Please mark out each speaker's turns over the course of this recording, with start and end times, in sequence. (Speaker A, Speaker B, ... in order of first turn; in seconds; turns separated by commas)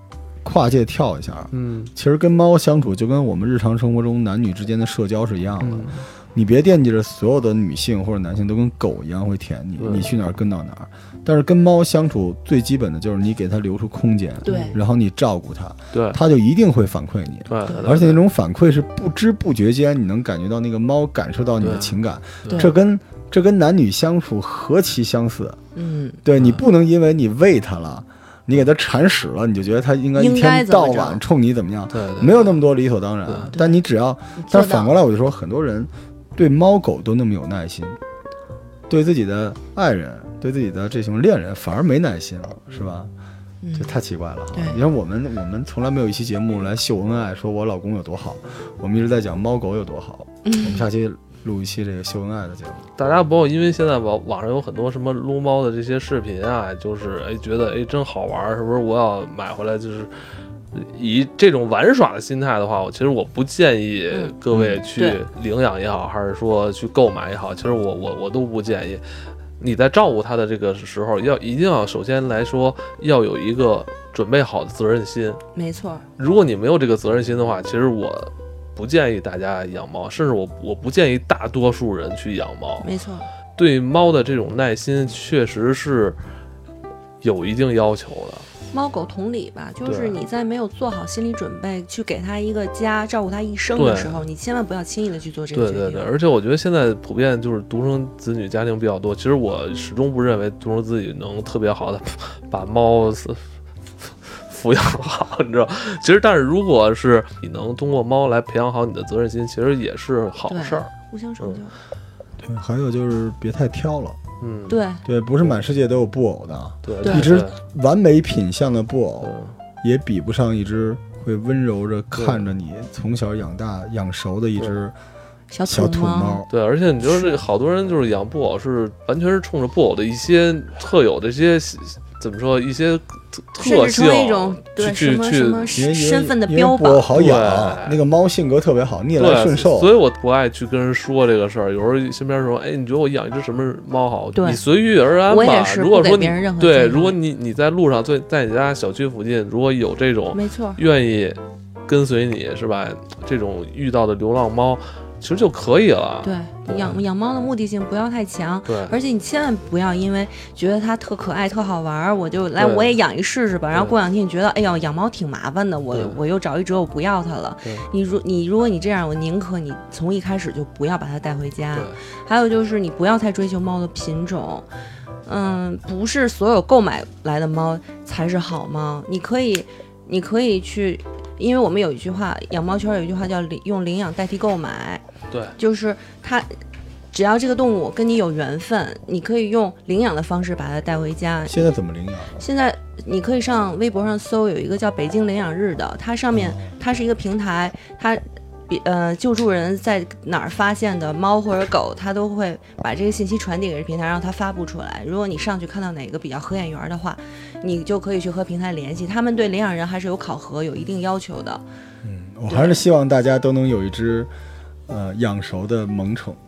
Speaker A: 0.4-25.6, Speaker B: 1.5-1.9, Speaker B: 5.6-6.0, Speaker B: 9.8-10.1, Speaker C: 14.4-14.8, Speaker B: 14.5-14.7, Speaker B: 15.9-16.2, Speaker B: 17.5-18.2, Speaker B: 21.6-22.7, Speaker C: 25.7-26.2, Speaker A: 26.2-38.0, Speaker B: 26.3-26.6, Speaker C: 30.1-31.2, Speaker B: 31.9-32.4, Speaker B: 33.2-33.5, Speaker C: 33.5-33.8, Speaker C: 34.4-34.9, Speaker A: 38.9-43.1, Speaker C: 43.6-44.0, Speaker A: 43.7-52.9, Speaker C: 44.5-44.8, Speaker C: 50.4-50.9, Speaker B: 53.0-60.1, Speaker B: 60.7-69.0, Speaker C: 64.1-65.2, Speaker B: 69.6-75.4, Speaker C: 75.5-76.0, Speaker B: 76.2-82.9, Speaker C: 82.8-83.3, Speaker B: 83.5-86.2, Speaker B: 87.2-88.5, Speaker C: 88.7-96.1, Speaker B: 89.8-90.2, Speaker B: 93.8-94.2, Speaker B: 95.5-103.4, Speaker B: 104.0-110.9, Speaker C: 110.5-111.8, Speaker A: 112.4-114.2, Speaker B: 114.4-114.8, Speaker C: 114.7-115.0, Speaker A: 115.0-125.0, Speaker B: 116.8-117.5, Speaker C: 117.0-117.3, Speaker B: 119.2-119.5, Speaker B: 122.1-122.5, Speaker C: 125.5-126.4, Speaker A: 125.7-126.5, Speaker B: 126.5-135.8, Speaker C: 127.0-127.4, Speaker C: 133.6-137.1, Speaker A: 135.7-139.9, Speaker B: 137.1-138.0, Speaker B: 139.2-157.0, Speaker C: 144.3-144.6, Speaker C: 145.3-147.2, Speaker C: 150.3-150.8, Speaker C: 156.2-174.7, Speaker B: 158.7-158.9, Speaker B: 162.6-163.0, Speaker B: 165.9-166.2, Speaker B: 167.6-167.9, Speaker B: 171.7-172.0, Speaker C: 175.2-185.0, Speaker B: 185.3-185.6, Speaker C: 185.6-186.6, Speaker C: 187.1-191.7, Speaker A: 191.5-192.4, Speaker C: 192.3-211.6, Speaker A: 196.3-196.7, Speaker A: 212.0-214.3, Speaker C: 212.5-212.8, Speaker A: 214.9-216.4